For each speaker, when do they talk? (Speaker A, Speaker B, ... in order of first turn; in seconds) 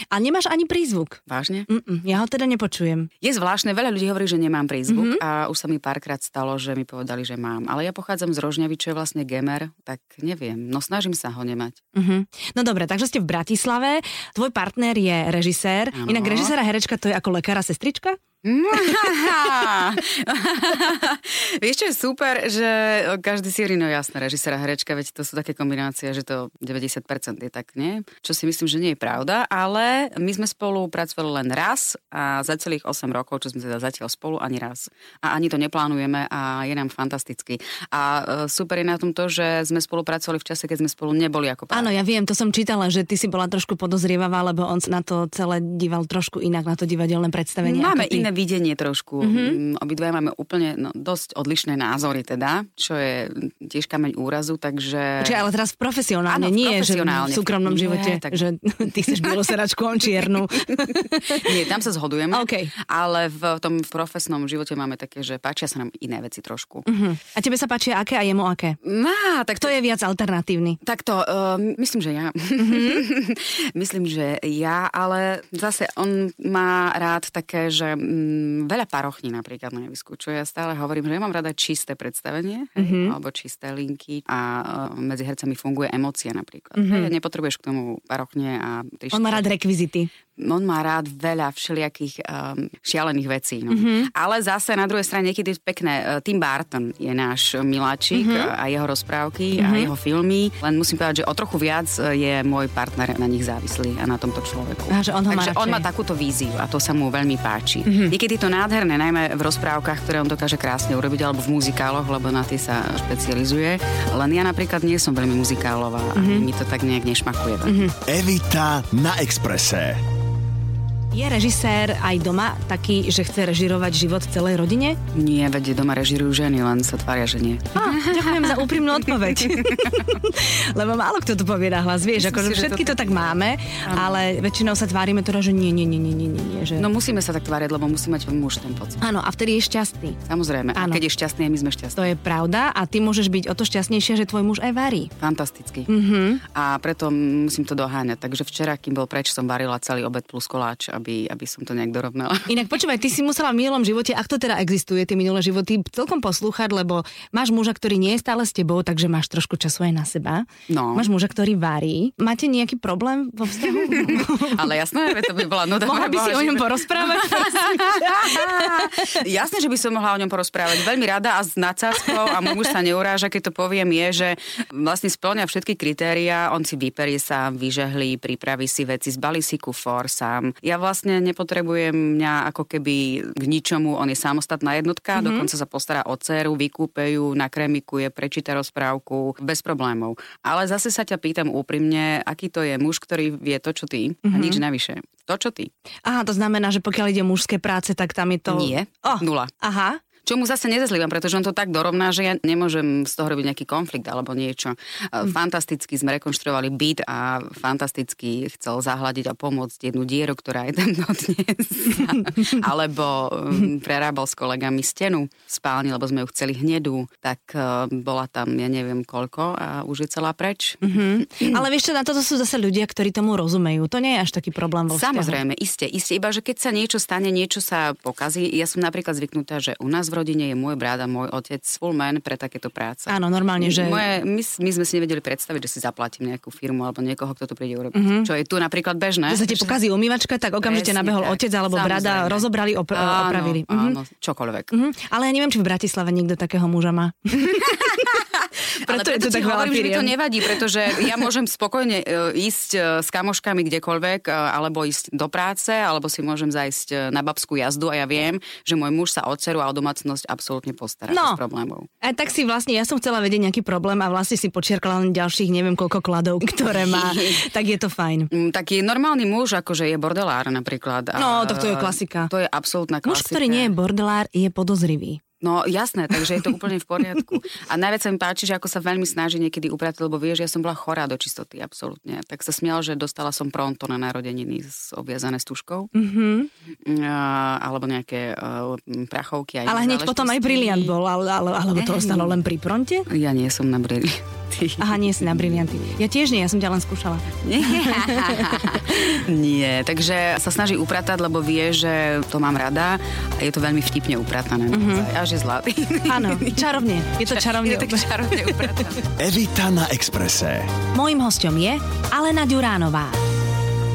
Speaker A: 0.1-3.1, 4.9-5.2, 11.9-18.2, 41.7-48.3, 49.2-49.6, 55.2-61.5, 62.3-62.7, 66.8-68.8, 69.6-70.8, 72.6-73.0, 82.8-83.2, 86.8-87.1, 89.1-90.1, 93.7-94.1, 98.1-98.5, 99.5-99.9, 104.9-105.8, 107.8-108.1, 116.1-116.5, 117.6-117.9, 121.1-125.0, 127.8-136.9, 139.0-140.2, 140.7-141.0, 142.0-145.1, 145.9-146.4, 152.5-164.6, 165.8-169.2, 185.1-185.5, 194.2-194.6, 196.1-200.0, 220.8-225.4, 233.1-234.0, 237.9-238.3, 239.3-244.0, 244.7-247.8, 248.8-251.1, 261.1-261.4, 262.0-268.3, 271.1-272.3, 273.0-275.2, 285.9-286.5, 289.6-293.1, 294.8-299.1, 304.7-305.1, 306.1-308.7, 310.9-313.2
Speaker B: 1.3-1.7, 3.2-11.8, 15.9-16.5, 18.4-41.9, 47.6-55.4, 56.3-58.4, 59.0-59.5, 60.1-66.8, 68.8-69.8, 70.8-89.5, 90.4-117.8, 125.1-130.1, 132.2-133.3, 133.8-134.2, 136.8-139.0, 140.3-142.1, 145.2-145.9, 146.5-152.5, 160.7-161.1, 163.6-195.7, 198.5-199.5, 200.2-221.6, 224.9-239.7, 240.6-244.7, 247.5-261.9, 266.7-267.4, 268.3-273.7, 275.4-285.9, 286.9-290.9, 291.7-292.4, 293.1-295.4, 297.4-309.1
Speaker C: 118.0-120.0, 309.2-310.7